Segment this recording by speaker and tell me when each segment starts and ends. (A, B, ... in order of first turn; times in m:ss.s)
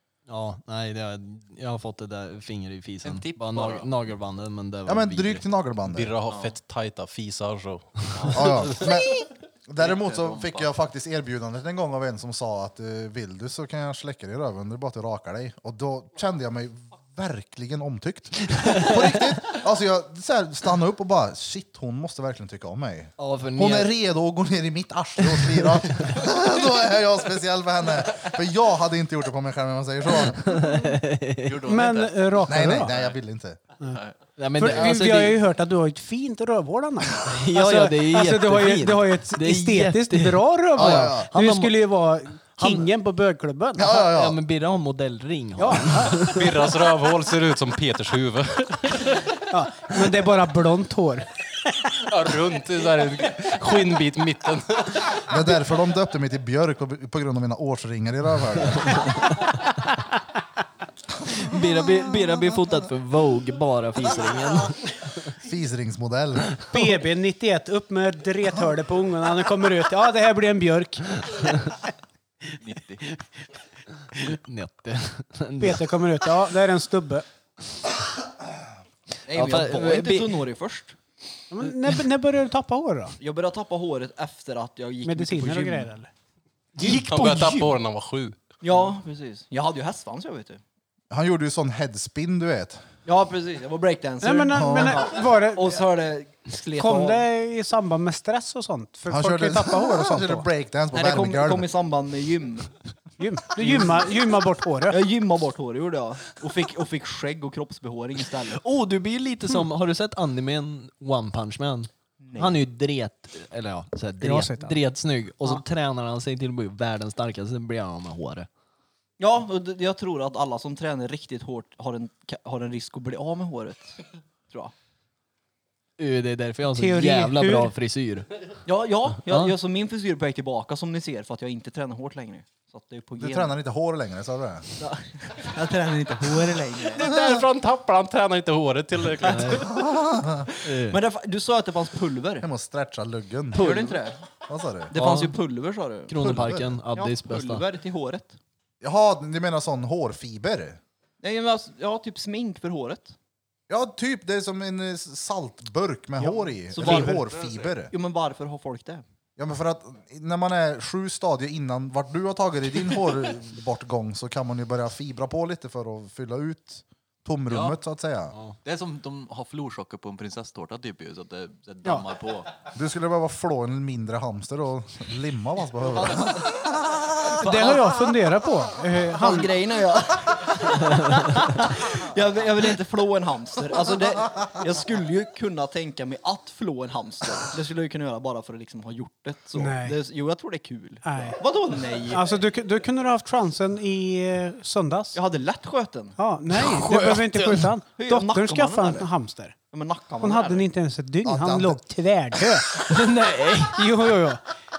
0:00.3-0:05.4 A
0:03.0-0:03.9 B
0:04.9-0:06.2 C
0:05.9-0:08.5 D
0:06.3-0:06.6 B
0:08.1-0:08.9 B
0:08.3-0:30.6 C
0:09.8-0:10.7 B
0:23.2-0:23.9 A
0:30.4-0:31.6 A
0:31.4-0:33.2 B
0:31.6-0:32.9 E
0:32.5-0:33.6 C
0:33.8-0:34.2 B
0:34.4-0:35.4 A
0:34.5-0:43.9 E
0:37.2-0:41.8 A
0:40.8-0:41.3 C
0:43.8-0:44.4 C
0:43.9-0:46.7 A
0:45.6-0:46.2 E
0:46.2-0:49.3 D
0:49.5-0:51.3 E
0:52.0-0:55.2 D
0:55.3-0:59.2 C
0:58.8-0:59.5 A
1:01.3-1:04.8 A
1:05.4-1:06.5 C
1:06.7-1:11.7 E
1:12.6-1:13.0 B
1:14.2-1:15.9 A
1:15.6-1:17.3 E
1:19.3-1:21.0 F
1:19.3-1:20.4 A
1:21.5-1:23.2 E
1:23.2-1:25.9 F
1:25.0-1:26.1 E
1:26.8-1:27.8 A
1:26.8-1:28.4 D
1:28.6-1:30.6 F
1:31.1-1:32.8 C
1:33.1-1:37.2 F
1:34.2-1:35.8 E
1:34.5-1:35.0 C
1:36.8-1:40.5 E
1:39.1-1:41.7 C
1:40.9-1:42.7 F
1:43.2-1:45.0 E
1:43.6-1:44.1 F
1:44.9-1:48.6 F
1:48.5-1:58.5 A
1:52.2-1:52.6 F
1:54.2-1:54.8 E
1:59.2-2:04.7 F
2:06.0-2:08.3 A
2:06.8-2:07.7 E
2:08.7-2:13.6 F
2:09.3-2:09.5 A
2:13.2-2:14.7 C
2:14.8-2:17.1 F
2:16.9-2:19.7 D
2:19.2-2:19.7 A
2:19.6-2:20.5 C
2:20.6-2:21.0 A
2:20.7-2:22.5 F
2:22.4-2:23.7 C
2:23.6-2:24.2 F
2:23.6-2:24.0 A
2:24.5-2:24.9 C
2:24.9-2:26.3 F
2:25.0-2:25.4 A
2:26.1-2:27.6 A
2:26.2-2:26.8 C
2:26.9-2:28.4 F
2:28.8-2:30.8 C
2:31.2-2:33.2 F
2:33.7-2:37.9 C
2:36.7-2:37.3 F
2:36.8-2:37.1 E
2:37.3-2:37.7 B
2:37.9-2:39.0 F
2:39.4-2:48.4 C
2:47.5-2:47.8 B
2:48.6-2:52.5 B
2:52.8-2:57.1 C
2:57.4-2:59.5 E
2:57.4-2:57.8 F
2:59.2-3:12.2 F
3:09.6-3:10.0 E
3:11.0-3:11.4 E
3:12.1-3:15.2 E
3:15.1-3:16.2 F
3:16.2-3:19.6 E
3:16.6-3:17.7 A
3:18.0-3:19.1 F
3:19.7-3:20.7 F
3:20.2-3:22.7 E
3:21.2-3:21.8 C
3:22.8-3:23.8 A
3:23.7-3:24.4 E